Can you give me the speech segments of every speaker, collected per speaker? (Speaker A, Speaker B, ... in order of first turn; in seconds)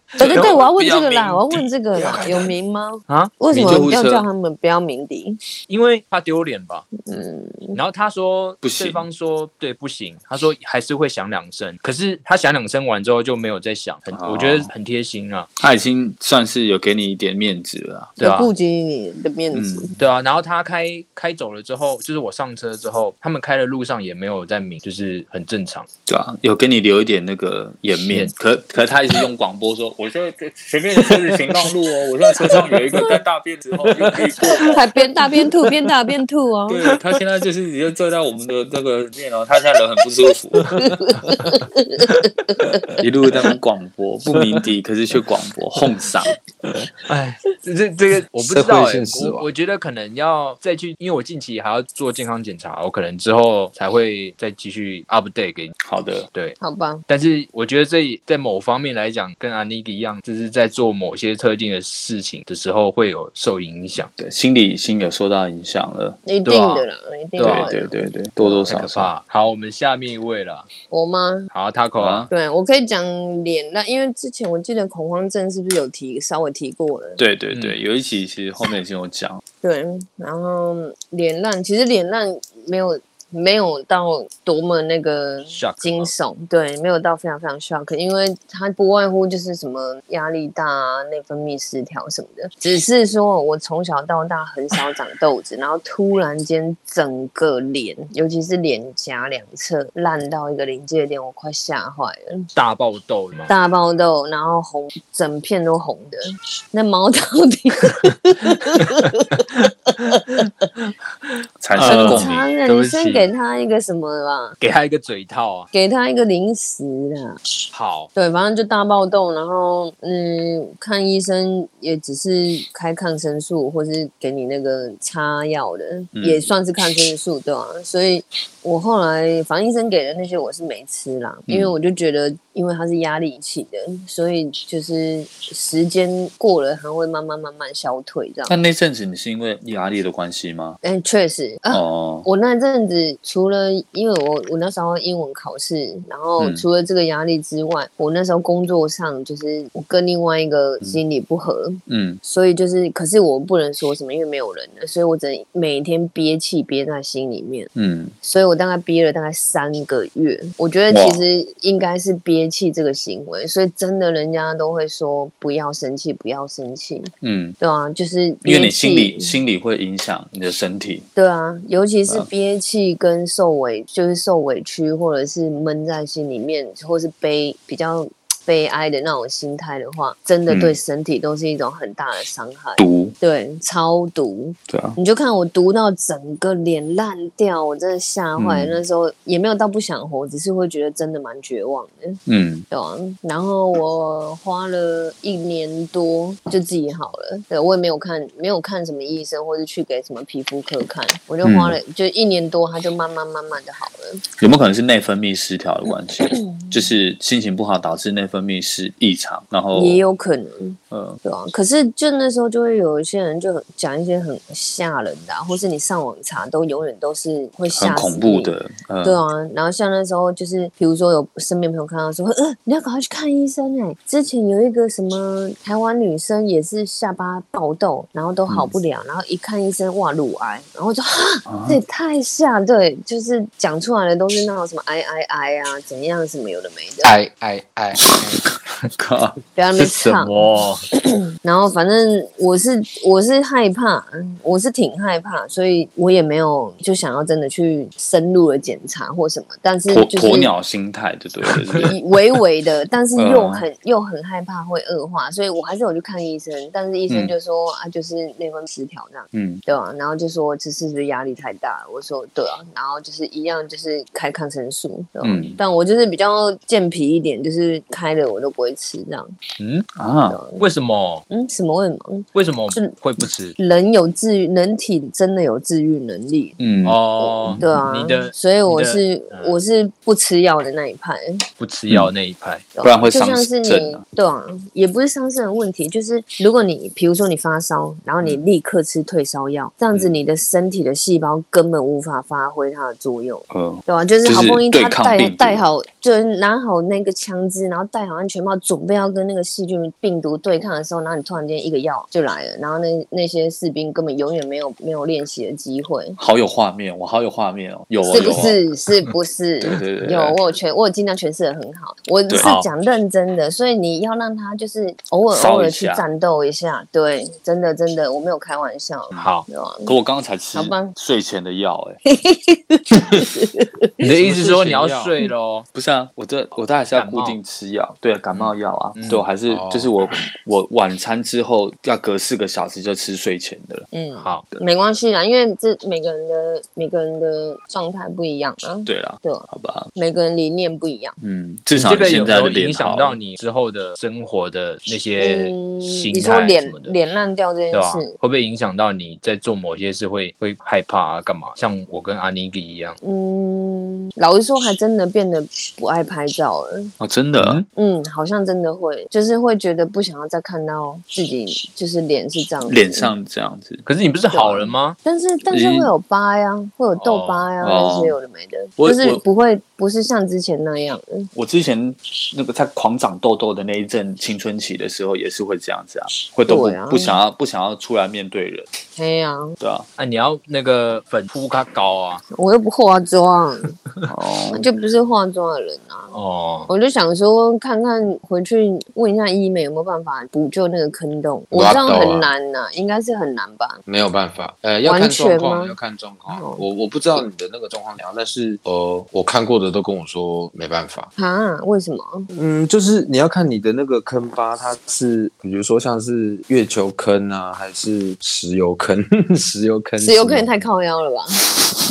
Speaker A: 0.1-0.6, 3.1-3.4, 5.7-6.9, 7.7-15.5, 18.2-18.5, 20.0-25.9, 47.1-55.7, 57.1-64.1, 66.4-66.9, 67.4-67.7, 68.7-70.7, 71.5-72.3, 77.5-77.8, 85.5-86.1, 102.5-103.5, 111.7-113.3, 114.6-115.7, 117.7-118.1, 239.8-240.8, 269.6-269.9, 270.6-271.2, 272.3-273.6, 276.8-279.6, 281.6-282.6, 312.3-312.7, 319.1-319.4, 324.0-325.7, 326.9-327.4, 328.3-329.2, 334.2-334.4, 341.7-346.9, 347.7-353.0, 357.4-357.6, 363.8-365.0, 366.9-367.5, 380.0-382.2, 386.1-386.7
Speaker B: 0.2-5.4, 7.1-7.8, 18.2-19.9, 34.6-36.8, 40.8-42.8, 56.6-57.0, 66.2-67.9, 70.9-71.5, 72.3-77.2, 79.6-102.5, 103.5-110.7, 111.8-114.5, 115.7-117.4, 118.1-138.6, 140.8-157.7, 158.2-169.4, 171.2-192.2, 192.7-204.2, 206.2-206.8, 209.7-237.1, 239.5-240.4, 240.9-250.5, 251.8-269.3, 270.3-270.6, 271.3-272.9, 273.6-276.6, 277.2-281.4, 282.7-306.2, 308.0-319.9, 320.5-320.9, 322.1-324.0, 333.9-341.1, 345.2-348.1, 353.0-356.9, 357.7-363.1, 364.3-371.3, 376.5-377.2, 378.9-379.6, 382.3-383.7, 384.5-386.1, 386.7-393.8, 394.8-395.8, 396.3-396.6, 401.1-402.3, 410.0-411.4
Speaker C: 0.2-2.5, 3.5-4.2, 8.6-9.0, 14.1-14.7, 15.6-18.1, 19.5-19.9, 26.1-35.0, 36.7-40.7, 43.0-46.4, 55.8-56.3, 64.2-66.2, 67.4-69.1, 72.0-72.3, 77.2-79.4, 111.6-112.5, 126.1-126.5, 131.5-131.7, 138.5-140.8, 141.7-142.3, 146.4-146.7, 151.9-152.2, 157.8-158.1, 160.9-161.2, 167.2-167.6, 168.4-171.1, 180.5-180.8, 182.8-183.2, 184.7-185.0, 188.4-188.8, 192.3-192.6, 201.4-201.8, 204.4-210.0, 210.9-211.2, 217.7-219.2, 228.5-228.7, 231.5-231.8, 238.1-239.4, 249.9-251.9, 253.2-253.7, 257.1-257.3, 259.3-259.6, 265.2-265.6, 270.0-270.4, 276.6-277.7, 282.8-284.0, 293.5-295.6, 306.2-308.6, 309.6-310.5, 315.3-316.1, 319.9-322.0, 325.7-333.9, 338.9-339.9, 341.2-343.2, 357.0-357.6, 362.7-363.8, 365.5-365.9, 367.6-368.2, 368.8-369.2, 371.3-378.7, 379.6-379.9, 384.1-384.7
Speaker D: 3.5-3.8, 48.4-49.5, 237.0-238.4, 324.2-325.1, 329.4-329.9, 391.5-392.3, 393.9-401.1, 402.3-410.6